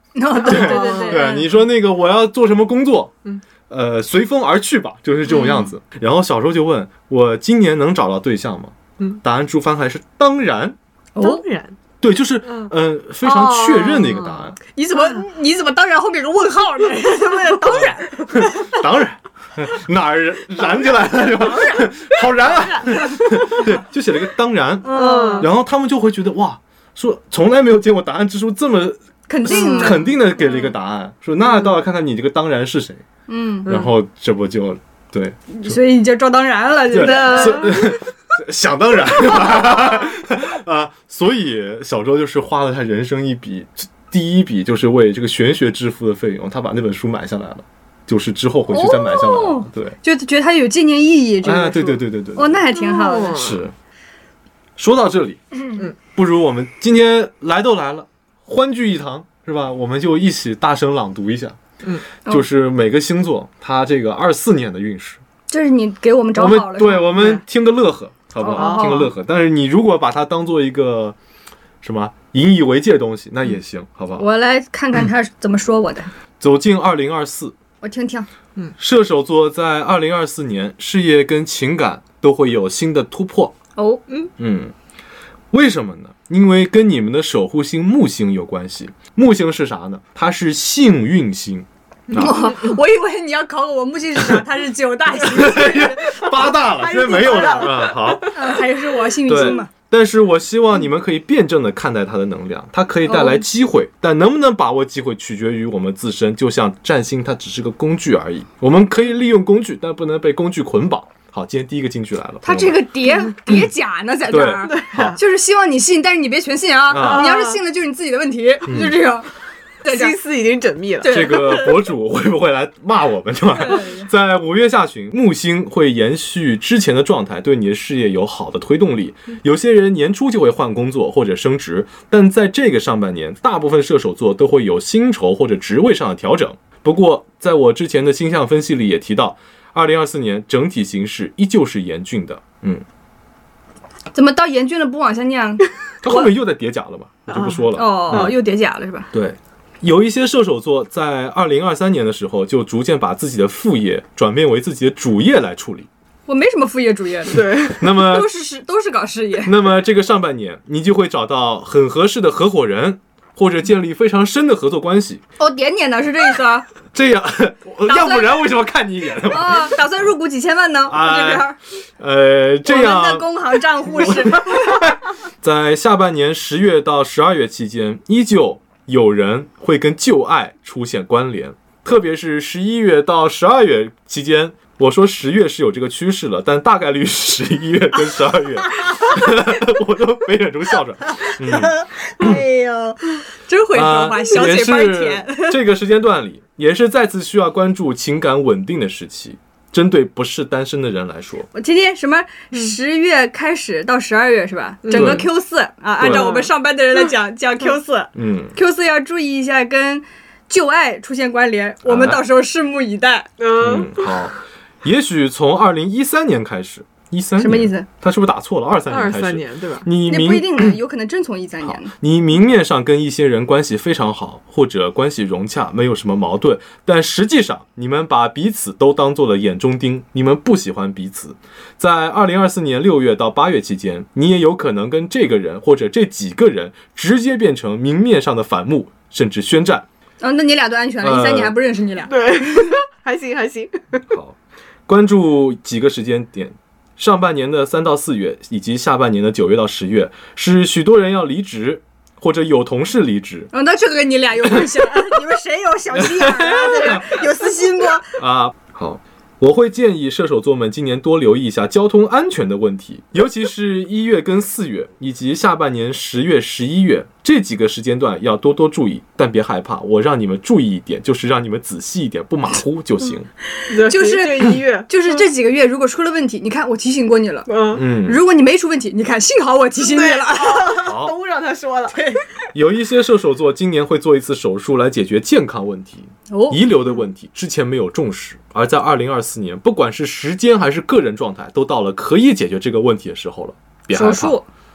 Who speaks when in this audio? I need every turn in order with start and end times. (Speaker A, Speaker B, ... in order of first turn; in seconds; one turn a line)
Speaker A: 0.1-1.5
Speaker B: 0.4-3.1
Speaker C: 0.5-1.3
Speaker B: 3.7-10.8
Speaker C: 5.4-5.6
Speaker A: 11.2-11.4
Speaker C: 11.2-11.8
Speaker B: 12.0-14.6
Speaker C: 12.4-12.7
Speaker C: 13.2-14.4
Speaker A: 14.7-18.7
Speaker C: 14.9-15.2
Speaker B: 17.7-33.0
Speaker A: 24.8-25.5
Speaker C: 24.9-25.5
Speaker A: 29.3-30.1
Speaker C: 29.5-30.0
Speaker A: 33.3-33.7
Speaker C: 33.6-33.9
Speaker B: 33.7-35.8
Speaker A: 35.5-37.9
Speaker B: 36.9-50.0
Speaker C: 37.0-37.8
Speaker A: 48.7-53.4
Speaker B: 51.4-52.6
Speaker C: 52.7-53.6
Speaker B: 53.3-53.7
Speaker B: 54.8-55.4
Speaker B: 56.1-61.6
Speaker B: 62.3-65.2
Speaker A: 65.5-67.4
Speaker B: 66.3-71.2
Speaker C: 67.1-67.4
Speaker A: 68.4-69.1
Speaker C: 68.5-69.1
Speaker B: 71.8-74.2
Speaker A: 74.2-76.1
Speaker B: 76.4-77.5
Speaker A: 77.8-78.3
Speaker B: 78.8-83.5
Speaker A: 83.8-84.0
Speaker B: 84.4-84.7
Speaker B: 85.5-92.4
Speaker A: 92.1-96.2
Speaker B: 95.2-98.3
Speaker C: 96.6-98.4
Speaker A: 98.3-99.7
Speaker B: 99.2-112.8
Speaker A: 103.1-103.4
Speaker A: 112.4-119.3
Speaker B: 114.3-115.2
Speaker C: 114.7-115.2
Speaker B: 116.9-117.3
Speaker C: 117.0-117.6
Speaker B: 118.7-119.0
Speaker A: 119.8-120.1
Speaker C: 119.8-121.4
Speaker A: 121.0-121.8
Speaker B: 121.1-142.8
Speaker A: 123.6-124.1
Speaker A: 144.1-146.3
Speaker B: 146.0-148.3
Speaker C: 147.3-148.2
Speaker A: 147.7-149.1
Speaker B: 149.1-155.9
Speaker A: 156.3-159.5
Speaker C: 157.3-157.8
Speaker B: 157.7-158.3
Speaker B: 159.4-165.2
Speaker A: 165.4-166.7
Speaker B: 166.9-169.8
Speaker A: 167.8-168.5
Speaker A: 169.2-171.6
Speaker B: 170.9-173.3
Speaker A: 172.6-174.7
Speaker B: 173.8-192.4
Speaker A: 191.2-195.6
Speaker B: 193.7-201.5
Speaker A: 201.5-213.3
Speaker C: 204.8-205.2
Speaker B: 204.9-205.2
Speaker B: 206.0-206.3
Speaker C: 206.0-206.5
Speaker B: 208.1-208.5
Speaker B: 211.8-212.2
Speaker C: 213.4-214.2
Speaker B: 213.6-220.8
Speaker A: 217.4-217.9
Speaker C: 218.9-219.9
Speaker A: 220.0-221.9
Speaker B: 221.6-239.9
Speaker A: 240.2-242.8
Speaker B: 241.0-241.5
Speaker C: 242.1-244.0
Speaker B: 244.1-253.5
Speaker A: 253.5-258.2
Speaker B: 255.9-257.2
Speaker B: 258.2-273.3
Speaker C: 273.7-274.9
Speaker A: 273.8-280.8
Speaker C: 277.5-277.8
Speaker B: 277.7-278.2
Speaker C: 279.8-282.1
Speaker B: 280.8-281.1
Speaker B: 282.5-294.4
Speaker A: 286.3-286.6
Speaker A: 293.9-294.4